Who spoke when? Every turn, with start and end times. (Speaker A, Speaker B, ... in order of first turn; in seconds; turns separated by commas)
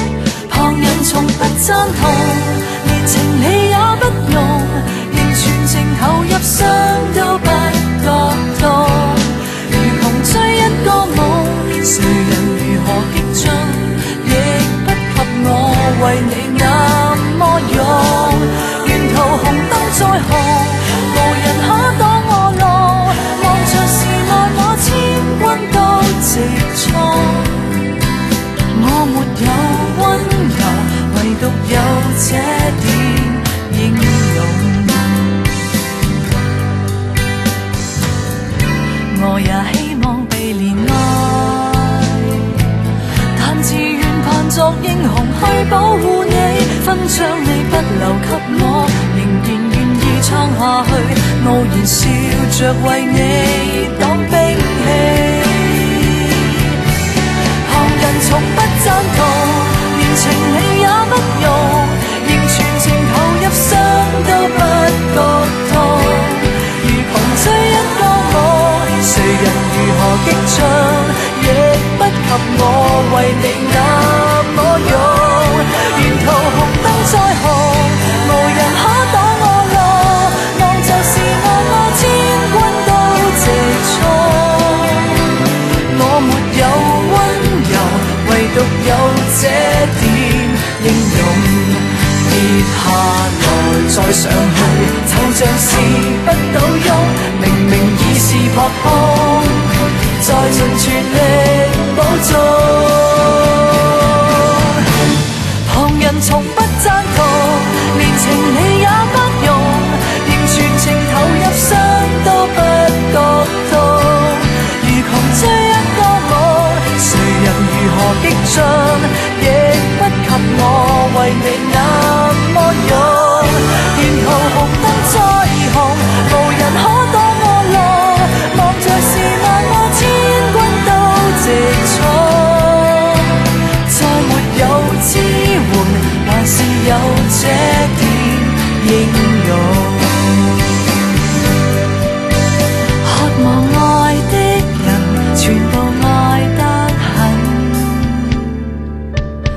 Speaker A: 0.5-27.7, Speaker A: 28.7-35.4, Speaker A: 39.1-42.4, Speaker A: 43.4-56.8, Speaker A: 57.6-104.8, Speaker A: 105.6-140.6, Speaker A: 143.0-148.4